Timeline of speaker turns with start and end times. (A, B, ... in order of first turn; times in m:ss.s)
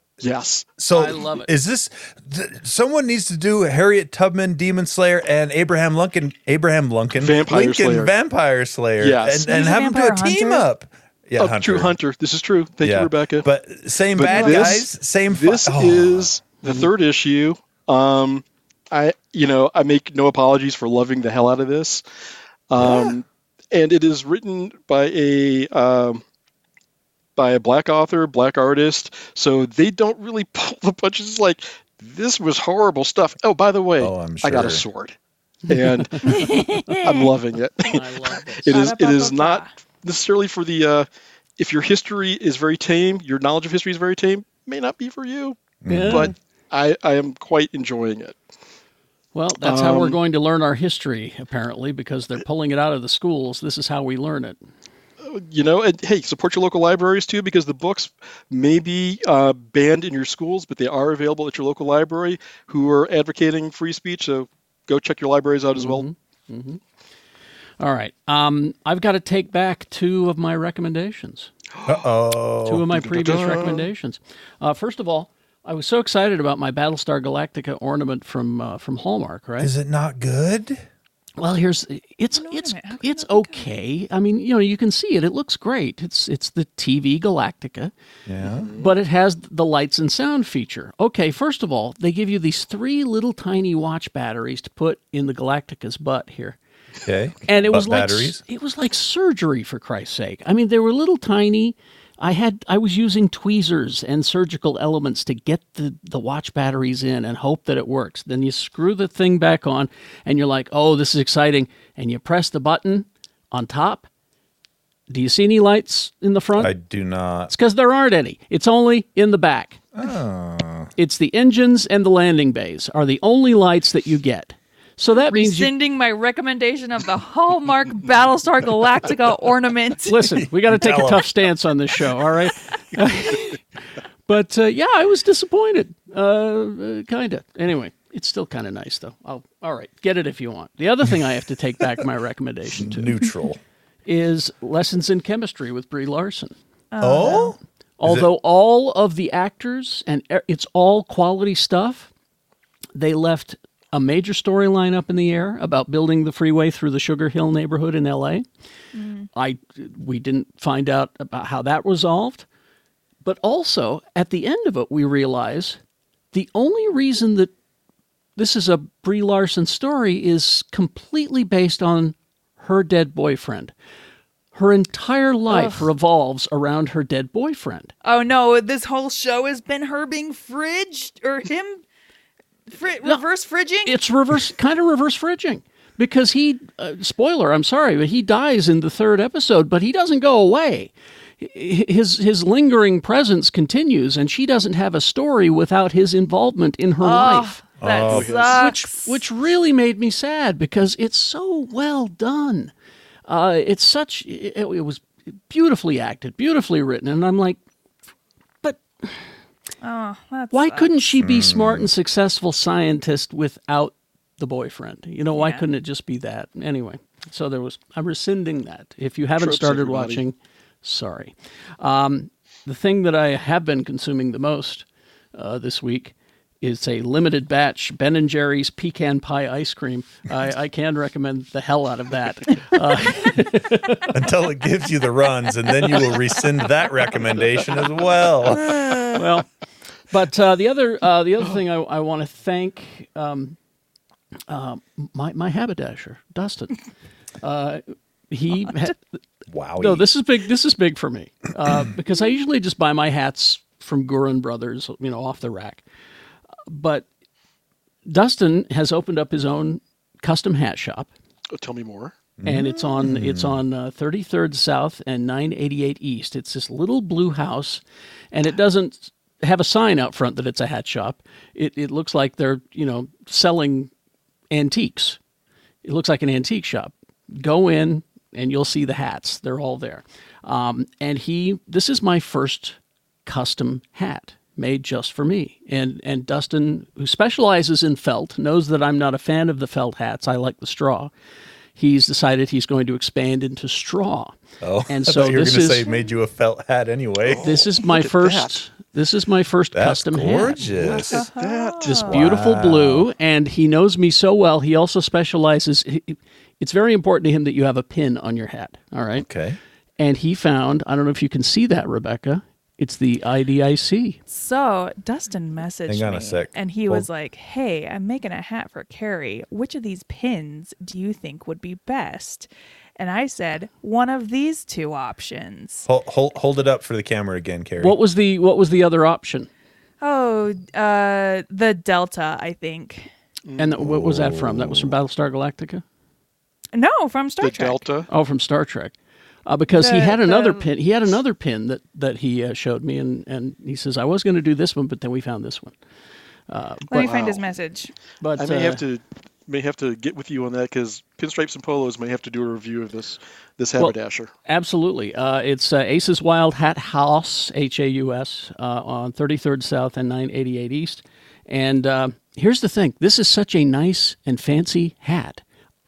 0:00.2-0:00.8 A
0:00.8-0:12.0 B
0:00.9-0:01.5 C
0:07.2-0:08.1 A
0:09.0-0:09.5 A
0:09.5-0:10.7 D
0:11.4-0:13.5 A
0:12.8-0:16.3 B
0:14.1-0:22.0 A
0:14.2-0:14.8 D
0:16.6-0:16.9 C
0:22.7-0:26.2 A
0:22.8-0:23.1 B
0:27.4-0:35.2 A
0:34.0-0:34.8 B
0:35.7-0:36.5 C
0:35.7-0:41.1 A
0:36.2-0:37.3 D
0:37.8-0:38.9 C
0:38.7-0:39.7 D
0:41.6-0:48.4 A
0:45.8-0:46.3 B
0:45.9-0:46.3 C
0:49.3-0:54.6 C
0:49.6-0:50.2 A
0:55.2-1:06.1 A
1:05.8-1:06.8 C
1:07.8-1:11.5 C
1:11.8-1:12.1 A
1:11.8-1:13.7 B
1:12.6-1:19.7 C
1:12.9-1:13.9 A
1:19.6-1:20.8 B
1:21.4-1:27.9 C
1:22.4-1:23.7 D
1:28.3-1:28.7 B
1:28.4-1:29.0 A
1:28.8-1:36.6 C
1:37.0-1:38.4 B
1:37.5-1:54.1 C
1:55.1-1:56.7 C
1:56.6-1:57.5 B
1:57.5-1:59.8 C
2:00.0-2:00.9 B
2:01.0-2:05.7 C
2:05.1-2:10.3 D
2:10.1-2:13.6 C
2:10.3-2:11.3 B
2:14.3-2:23.2 C
2:22.8-2:23.6 B
2:24.1-2:26.5 C
2:26.9-2:27.6 D
2:27.0-2:28.3 B
2:28.0-2:32.1 C
2:33.0-2:38.5 C
2:39.0-2:39.3 D
2:39.4-2:42.5 C
2:43.2-2:45.8 C
2:46.3-2:47.5 C
2:48.4-2:53.8 C
2:54.5-2:57.9 C
2:55.5-2:55.9 D
2:58.0-3:01.8 D
3:02.7-3:04.0 D
3:03.8-3:17.6 C
3:17.0-3:19.2 D
3:17.8-3:18.3 B
3:18.1-3:18.6 A
3:18.3-3:22.7 C
3:23.3-3:27.6 C
3:28.6-3:29.2 C
3:29.8-3:31.0 D
3:30.5-3:54.2 C
3:31.2-3:31.9 B
3:35.3-3:35.7 D
3:39.4-3:40.2 A
3:54.1-3:59.0 B
3:58.6-3:59.0 D
3:59.1-3:59.5 C
4:00.1-4:03.6 C
4:04.5-4:06.8 C
4:07.4-4:09.0 C
4:09.5-4:10.1 B
4:09.8-4:15.8 C
4:16.7-4:17.1 C
4:18.1-4:21.1 C
4:21.5-4:22.2 A
4:22.4-4:23.6 B
4:22.4-4:33.9 C
4:34.5-4:35.2 C
4:35.8-4:51.1 C
4:51.8-4:54.4 C
4:54.6-4:57.7 B
4:54.9-4:55.9 C
4:57.3-4:58.5 A
4:57.4-5:01.1 C
4:59.7-5:01.3 B
5:00.8-5:02.0 A
5:01.1-5:02.3 D
5:01.8-5:09.3 C
5:02.0-5:03.1 B
5:09.2-5:09.6 B
5:10.0-5:14.2 C
5:14.3-5:25.9 D
5:15.9-5:17.1 B
5:25.9-5:28.0 B
5:27.8-5:29.5 C
5:30.0-5:33.1 D
5:33.5-5:33.8 A
5:33.6-5:35.8 C
5:33.8-5:35.0 B
5:36.7-5:37.8 D
5:37.4-5:38.1 A
5:38.1-5:38.9 C
5:39.5-5:45.8 C
5:39.7-5:40.7 D
5:46.5-5:47.0 C
5:46.9-5:47.9 D
5:46.9-5:47.4 A
5:48.2-5:48.8 C
5:48.4-5:54.3 A
5:54.5-6:05.4 C